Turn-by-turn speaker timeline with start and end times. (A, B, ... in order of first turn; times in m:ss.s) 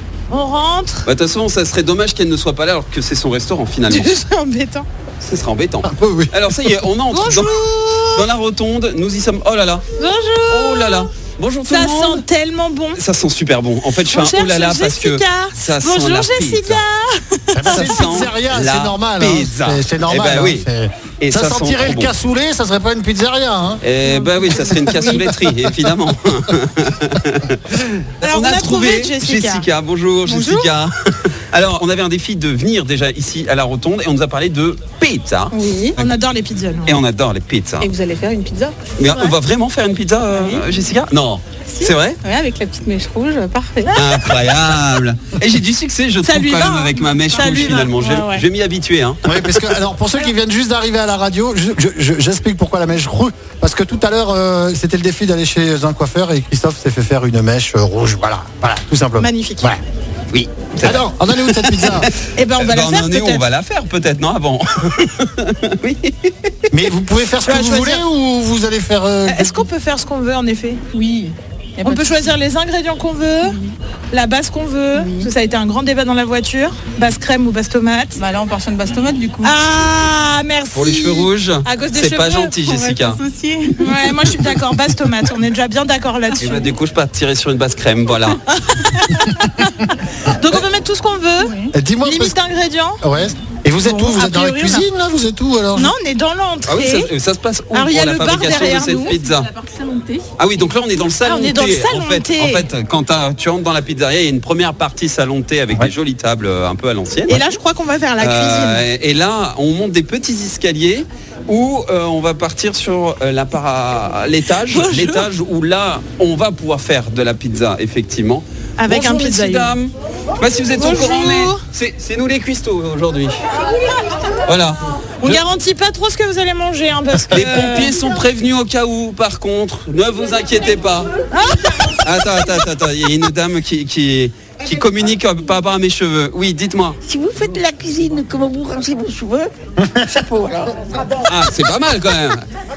0:00.3-0:01.1 A
0:01.0-0:04.1 B
0:03.8-0:04.8 A
0:05.2-0:09.8 B
0:05.8-0:06.4 C
0:07.1-0:08.3 A
0:10.0-0:11.1 A
0:10.5-0:12.2 B
0:11.7-0:13.0 A
0:13.0-0:16.8 B
0:14.1-0:18.1 A
0:17.6-0:23.8 C
0:17.7-0:20.7 B
0:21.2-0:22.1 B
0:23.8-0:36.2 B
0:24.0-0:25.2 A
0:24.5-0:25.9 C
0:28.2-0:29.7 A
0:30.2-0:30.7 A
0:35.5-0:36.0 D
0:35.9-0:37.0 A
0:36.8-0:37.9 B
0:37.8-0:38.8 D
0:39.0-0:42.2 B
0:39.1-0:39.4 A
0:40.3-0:40.6 D
0:41.7-0:43.9 D
0:43.8-0:44.4 A
0:43.9-0:49.6 B
0:46.2-0:48.5 A
0:49.3-0:59.8 C
0:59.2-0:59.7 A
1:00.3-1:06.6 B
1:00.8-1:02.1 C
1:02.4-1:03.4 A
1:06.7-1:09.6 C
1:07.4-1:08.0 A
1:09.3-1:10.8 A
1:10.9-1:12.2 D
1:11.8-1:13.6 A
1:13.4-1:13.7 D
1:14.1-1:18.2 A
1:14.9-1:15.3 D
1:18.2-1:19.5 D
1:19.4-1:22.6 A
1:20.7-1:23.2 B
1:22.7-1:23.9 D
1:23.8-1:26.7 A
1:26.4-1:28.4 B
1:28.4-1:33.0 A
1:31.7-1:32.4 C
1:33.0-1:35.9 C
1:33.8-1:34.9 A
1:35.8-1:37.1 A
1:36.7-1:39.5 B
1:37.7-1:39.2 A
1:39.2-1:40.2 D
1:40.4-1:47.4 B
1:41.2-1:42.7 A
1:47.3-1:48.9 A
1:48.2-2:03.4 B
1:54.7-1:55.3 A
1:58.8-1:59.8 A
2:00.8-2:01.6 A
2:04.4-2:05.4 B
2:05.2-2:08.0 A
2:07.3-2:11.1 B
2:11.3-2:12.5 A
2:12.0-2:17.0 B
2:17.0-2:19.5 E
2:20.1-2:21.0 E
2:21.2-2:22.5 B